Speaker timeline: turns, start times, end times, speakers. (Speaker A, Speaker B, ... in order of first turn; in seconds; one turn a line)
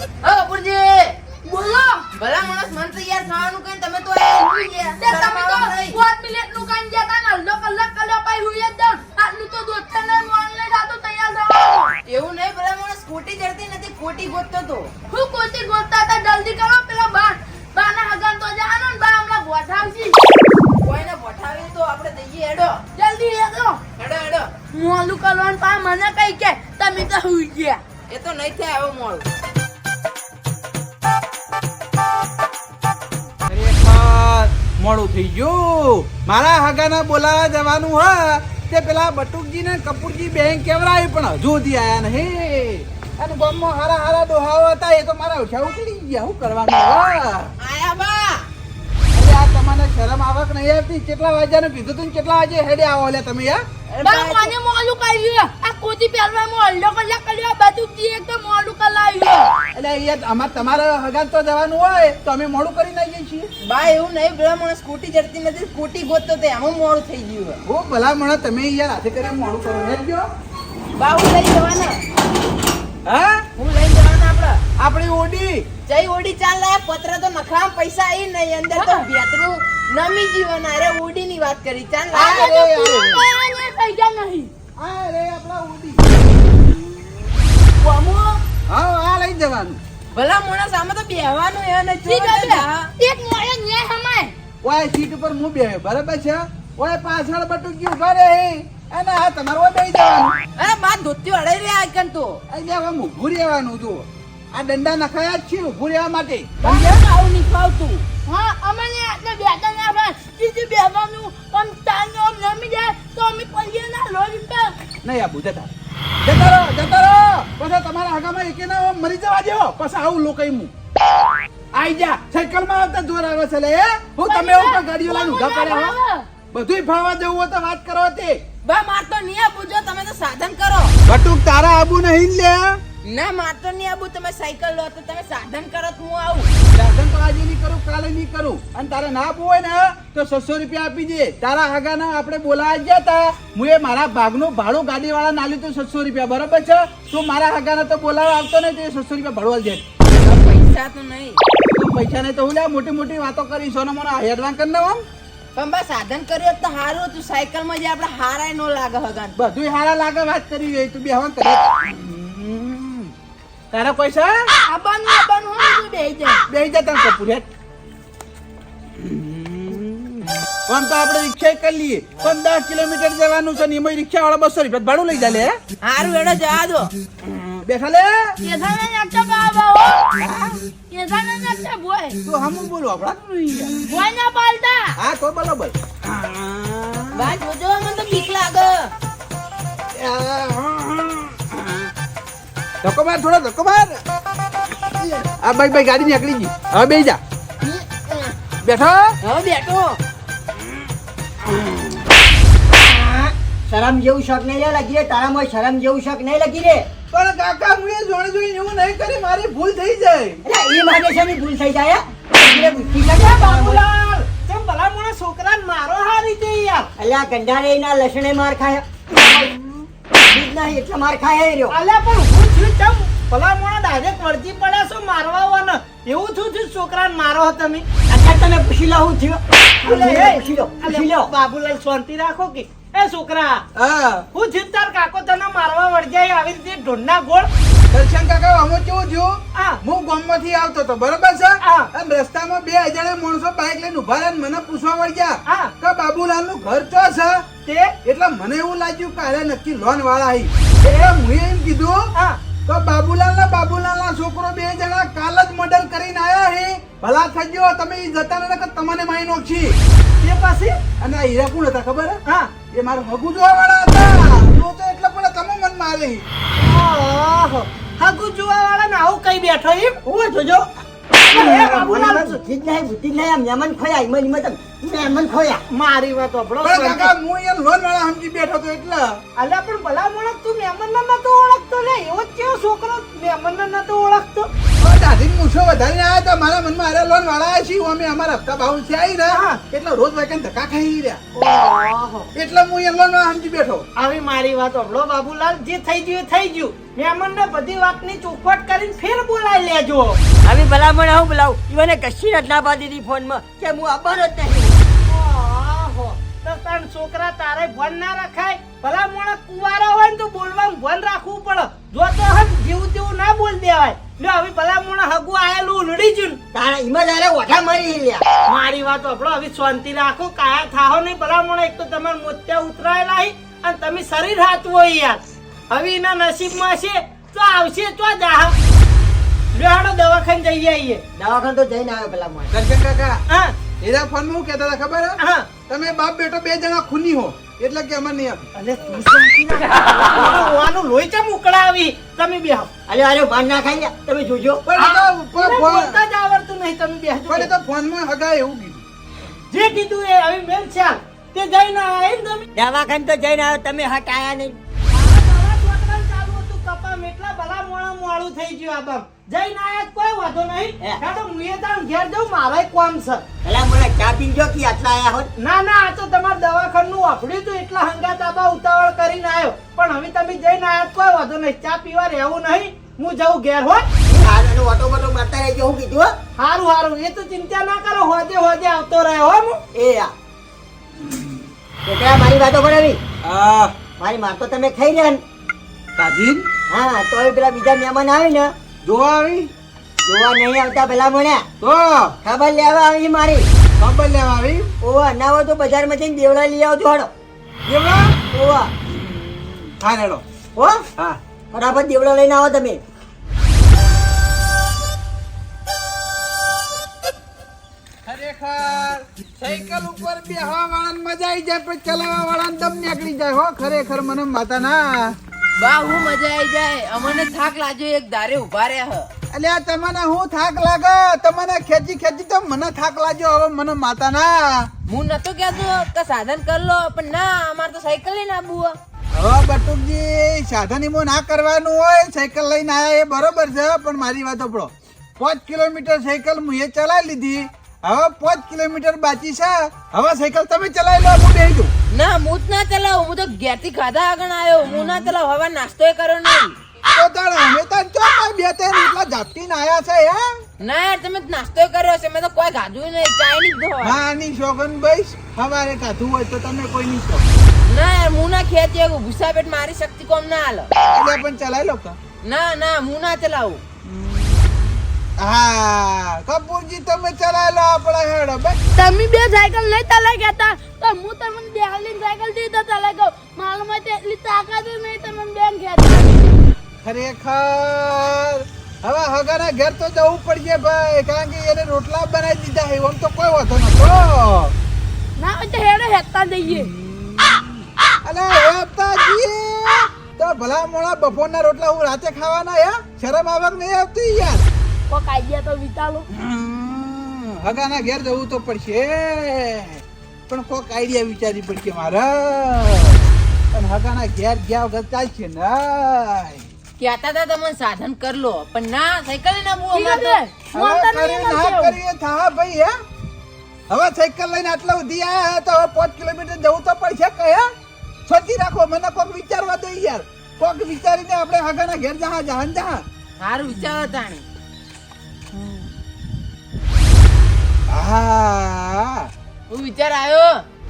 Speaker A: 0.2-1.1
Speaker B: 1.4-2.0
Speaker A: 2.2-6.0
Speaker B: 5.0-11.9
Speaker A: 12.1-14.9
Speaker B: 15.1-20.2
Speaker A: 20.8-22.9
Speaker B: 22.9-23.9
Speaker A: 23.9-24.6
Speaker B: 24.7-27.8
Speaker A: 28.1-29.2
Speaker C: 33.5-47.5
Speaker A: 47.6-48.5
Speaker C: 49.1-53.6
Speaker A: 53.9-54.5
Speaker B: 54.0-59.5
Speaker C: 59.7-63.5
Speaker A: 63.6-67.6
Speaker C: 67.7-70.2
Speaker A: 71.0-72.0
Speaker C: 73.0-73.4
Speaker A: 73.5-74.6
Speaker C: 74.8-75.7
Speaker A: 75.9-82.5
Speaker B: 78.7-79.1
Speaker C: 82.1-83.2
Speaker B: 82.2-84.5
Speaker C: 84.8-86.0
Speaker C: 86.6-87.3
Speaker B: 87.8-88.3
Speaker C: 88.7-89.8
Speaker A: 90.1-92.9
Speaker B: 92.1-94.3
Speaker C: 94.6-100.4
Speaker A: 100.6-102.4
Speaker C: 102.5-106.7
Speaker A: 106.6-108.0
Speaker B: 106.7-107.0
Speaker B: 108.2-114.7
Speaker C: 115.0-115.7
Speaker C: 116.2-120.7
Speaker C: 121.7-126.0
Speaker B: 124.2-126.2
Speaker C: 126.5-128.4
Speaker A: 128.6-130.9
Speaker C: 131.1-132.8
Speaker A: 133.0-136.5
Speaker C: 136.7-149.9
Speaker A: 150.1-151.4
Speaker C: 151.7-155.0
Speaker A: 155.6-159.4
Speaker C: 159.3-163.1
Speaker C: 163.7-164.4
Speaker B: 164.7-166.4
Speaker C: 166.5-167.4
Speaker C: 168.9-175.6
Speaker A: 175.8-176.9
Speaker C: 177.2-178.3
Speaker B: 178.4-180.1
Speaker C: 180.2-180.6
Speaker B: 180.9-182.2
Speaker C: 182.2-183.8
Speaker B: 183.9-185.0
Speaker C: 185.0-187.3
Speaker A: 187.1-188.9
Speaker C: 189.9-191.9
Speaker C: 192.8-194.0
Speaker C: 195.0-197.2
Speaker A: 197.6-198.3
Speaker C: 198.6-199.1
Speaker A: 199.2-200.0
Speaker C: 201.4-202.1
Speaker D: 202.7-206.9
Speaker C: 207.1-210.4
Speaker D: 210.4-213.8
Speaker E: 213.0-216.9
Speaker D: 217.0-219.5
Speaker D: 220.2-221.7
Speaker E: 221.7-227.8
Speaker D: 228.1-231.3
Speaker E: 229.8-233.6
Speaker C: 233.7-234.2
Speaker E: 234.3-237.5
Speaker C: 237.9-247.4
Speaker E: 239.5-239.8
Speaker E: 241.6-241.9
Speaker E: 245.5-245.7
Speaker E: 247.7-247.9
Speaker C: 248.0-252.0
Speaker E: 250.8-251.1
Speaker C: 252.7-259.7
Speaker E: 260.2-260.7
Speaker C: 261.0-262.2
Speaker E: 262.2-262.5
Speaker C: 262.7-266.3
Speaker E: 266.5-270.0
Speaker D: 270.0-275.6
Speaker E: 271.2-272.4
Speaker E: 275.7-277.1
Speaker C: 276.6-279.2
Speaker E: 279.4-284.5
Speaker C: 284.8-291.2
Speaker E: 289.3-289.6
Speaker E: 291.3-292.3
Speaker C: 292.3-293.8
Speaker E: 294.0-300.2
Speaker D: 300.4-304.8
Speaker E: 305.1-316.4
Speaker D: 316.5-318.2
Speaker E: 318.4-328.6
Speaker E: 329.5-331.0
Speaker D: 331.1-332.5
Speaker C: 332.5-333.2
Speaker E: 333.3-333.5
Speaker C: 333.8-335.2
Speaker E: 335.2-335.5
Speaker C: 335.7-338.4
Speaker E: 338.5-342.7
Speaker D: 342.9-344.6
Speaker C: 344.6-346.0
Speaker E: 344.8-347.5
Speaker C: 347.3-348.8
Speaker E: 349.5-352.4
Speaker D: 352.6-354.6
Speaker E: 354.9-363.2
Speaker D: 363.4-365.3
Speaker E: 365.4-373.9
Speaker D: 374.1-376.1
Speaker E: 376.4-379.6
Speaker D: 379.7-380.1
Speaker D: 381.8-383.0
Speaker C: 383.2-383.7
Speaker D: 384.0-385.2
Speaker C: 385.9-386.5
Speaker D: 386.7-388.5
Speaker C: 388.8-389.5
Speaker D: 390.0-391.4
Speaker C: 391.6-392.1
Speaker D: 392.2-393.5
Speaker C: 393.8-394.7
Speaker D: 394.8-397.1
Speaker C: 397.6-398.2
Speaker D: 398.3-398.7
Speaker C: 398.8-400.2
Speaker D: 400.6-400.9
Speaker D: 401.5-402.8
Speaker C: 408.0-415.1
Speaker A: 415.6-419.1
Speaker C: 419.3-424.7
Speaker A: 424.9-428.7
Speaker C: 429.1-441.7
Speaker A: 441.9-446.6
Speaker C: 444.6-445.1
Speaker C: 446.9-450.4
Speaker A: 450.6-454.0
Speaker C: 453.8-457.3
Speaker A: 457.7-460.7
Speaker C: 460.9-462.0
Speaker A: 462.2-463.6
Speaker C: 463.8-468.6
Speaker B: 468.7-476.2
Speaker C: 476.8-484.5
Speaker B: 485.2-486.7
Speaker C: 486.4-494.5
Speaker B: 494.9-496.1
Speaker C: 496.1-506.5
Speaker A: 506.8-510.2
Speaker B: 509.7-511.7
Speaker C: 510.5-512.7
Speaker E: 510.6-511.6
Speaker C: 513.7-517.5
Speaker C: 518.0-522.8
Speaker A: 523.2-524.2
Speaker C: 527.7-529.1
Speaker A: 529.5-530.5